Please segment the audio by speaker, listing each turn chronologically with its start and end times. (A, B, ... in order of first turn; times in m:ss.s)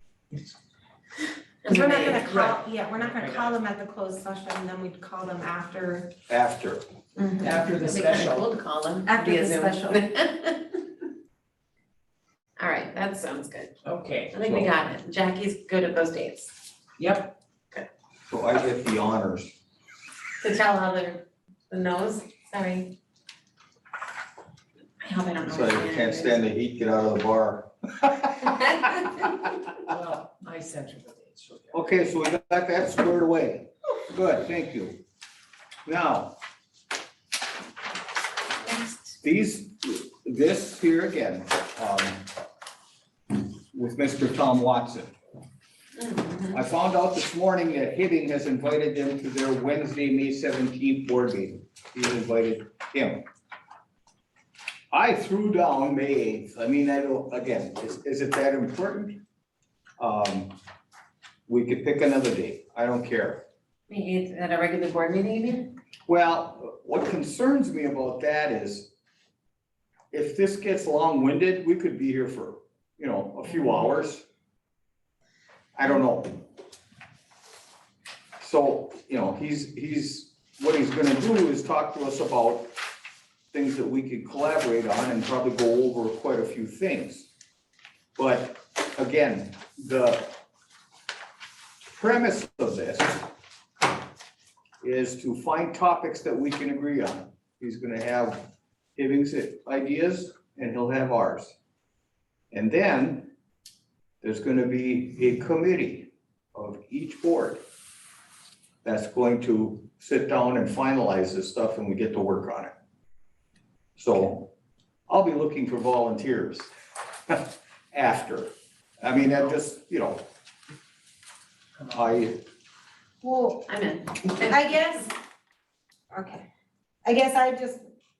0:01.6-0:02.6 A
0:01.6-0:06.1 B
0:03.0-0:03.6 C
0:06.3-0:06.8 D
0:07.2-0:07.7 B
0:07.4-0:08.5 C
0:07.8-0:10.8 A
0:09.0-0:10.0 B
0:12.6-0:13.7 A
0:13.8-0:14.6 C
0:14.3-0:16.5 A
0:17.0-0:17.3 C
0:18.3-0:19.5 D
0:20.4-0:22.9 A
0:25.0-0:26.4 A
0:25.5-0:29.2 D
0:28.8-0:29.2 A
0:29.8-0:32.1 C
0:31.7-0:35.0 D
0:35.8-0:36.4 D
0:38.6-0:39.1 A
0:39.2-0:42.3 D
0:43.3-0:45.1 D
0:46.0-0:46.6 A
0:46.5-0:53.2 D
0:54.9-0:59.2 D
1:00.0-1:00.5 D
1:01.5-1:03.4 D
1:03.9-1:05.7 A
1:06.1-1:08.9 D
1:10.1-1:14.2 D
1:15.8-1:16.5 D
1:18.4-1:22.7 D
1:23.5-1:27.3 D
1:28.2-1:30.3 D
1:31.9-1:33.3 D
1:34.8-1:41.5 D
1:42.5-1:43.3 D
1:44.2-1:47.6 D
1:48.8-1:52.7 D
1:54.0-1:54.5 D
1:55.1-1:56.7 D
1:57.3-2:00.2 D
2:01.9-2:02.4 D
2:03.2-2:03.6 B
2:03.6-2:04.7 A
2:04.3-2:05.1 B
2:06.1-2:06.4 B
2:07.0-2:07.8 B